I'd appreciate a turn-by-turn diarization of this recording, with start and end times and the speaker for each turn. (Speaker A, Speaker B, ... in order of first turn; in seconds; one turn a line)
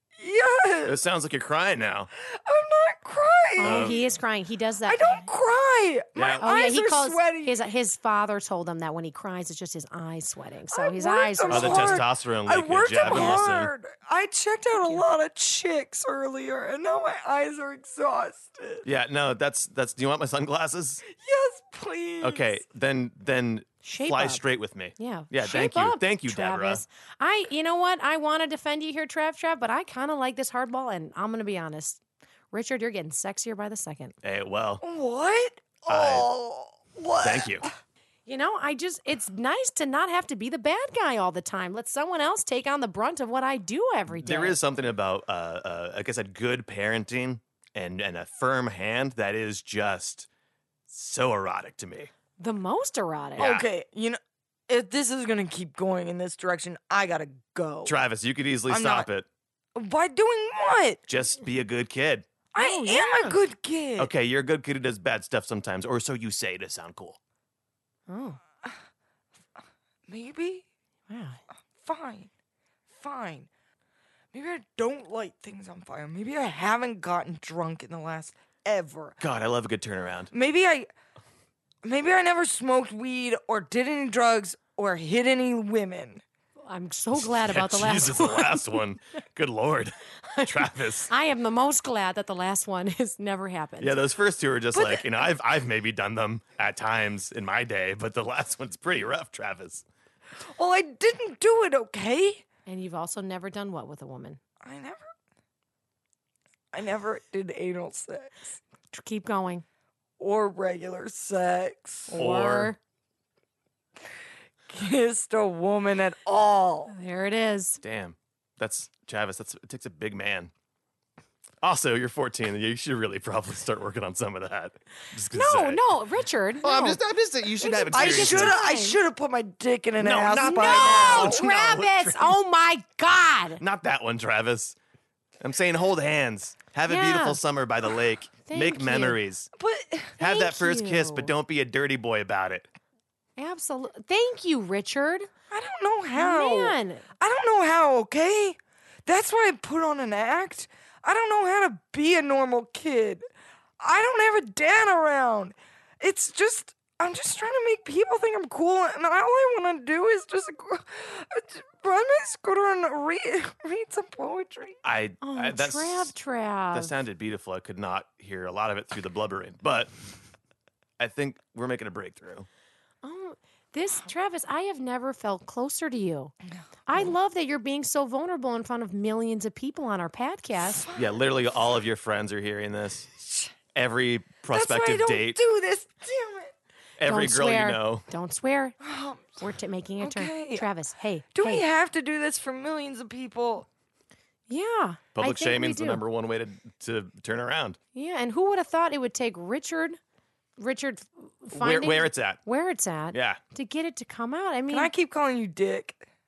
Speaker A: 0.2-1.0
Speaker B: 0.8-2.1
Speaker A: 2.2-4.0
Speaker C: 3.6-5.2
Speaker B: 3.6-4.0
Speaker A: 4.8-7.6
Speaker B: 6.2-6.5
Speaker C: 6.4-12.0
Speaker A: 10.7-18.9
Speaker B: 11.5-13.7
Speaker C: 13.1-13.5
Speaker B: 18.9-21.0
Speaker A: 21.1-22.5
Speaker B: 22.2-26.8
Speaker C: 23.8-24.4
Speaker C: 25.0-32.0
Speaker C: 32.5-34.1
Speaker B: 34.2-34.8
Speaker A: 34.8-37.7
Speaker B: 35.9-36.3
Speaker B: 37.2-37.7
Speaker C: 38.3-44.6
Speaker B: 44.1-50.3
Speaker B: 50.9-52.1
Speaker C: 52.4-53.5
Speaker B: 53.4-53.7
Speaker A: 53.4-58.0
Speaker B: 57.9-59.3
Speaker A: 58.7-59.1
Speaker A: 59.8-61.0
Speaker B: 61.1-62.3
Speaker A: 62.5-64.1
Speaker C: 62.6-63.4
Speaker B: 64.0-67.2
Speaker C: 68.1-68.4
Speaker A: 70.1-70.7
Speaker C: 71.1-71.4
Speaker A: 71.8-72.3
Speaker A: 72.9-73.5
Speaker A: 74.3-79.2
Speaker B: 79.2-80.3
Speaker A: 80.3-80.9
Speaker A: 81.8-86.2
Speaker C: 86.7-88.8
Speaker B: 87.2-91.1
Speaker C: 90.3-94.0
Speaker B: 93.8-99.8
Speaker A: 94.7-95.1
Speaker A: 100.5-102.5
Speaker C: 102.7-104.4
Speaker A: 104.6-105.1
Speaker A: 106.7-108.6
Speaker C: 108.9-109.6
Speaker A: 110.2-112.2
Speaker C: 112.1-112.8
Speaker B: 112.2-112.7
Speaker A: 114.7-116.9
Speaker C: 116.9-117.8
Speaker B: 117.8-120.5
Speaker B: 121.6-125.8
Speaker C: 125.3-127.0
Speaker B: 126.6-128.5
Speaker C: 127.6-129.0
Speaker A: 127.9-131.4
Speaker B: 130.0-132.4
Speaker C: 130.4-133.6
Speaker B: 133.6-134.8
Speaker B: 135.4-139.5
Speaker C: 136.9-137.4
Speaker C: 138.4-139.2
Speaker A: 139.6-140.2
Speaker C: 140.2-141.3
Speaker B: 140.2-142.7
Speaker C: 143.4-145.3
Speaker A: 145.5-153.2
Speaker C: 146.2-147.0
Speaker A: 153.8-164.8
Speaker B: 164.8-166.1
Speaker C: 165.2-166.9
Speaker B: 166.7-169.9
Speaker B: 171.0-172.5
Speaker C: 173.0-176.3
Speaker C: 176.9-180.8
Speaker A: 180.6-181.1
Speaker B: 181.0-183.1
Speaker A: 183.2-183.5
Speaker B: 183.7-185.4
Speaker A: 184.5-186.5
Speaker B: 187.0-188.1
Speaker C: 187.0-188.8
Speaker A: 188.8-189.4
Speaker C: 189.4-191.6
Speaker A: 190.0-190.7
Speaker A: 191.3-193.7
Speaker C: 194.5-196.0
Speaker B: 195.2-197.8
Speaker C: 197.9-200.0
Speaker C: 200.6-204.9
Speaker B: 201.5-202.4
Speaker B: 203.1-203.4
Speaker A: 204.7-206.1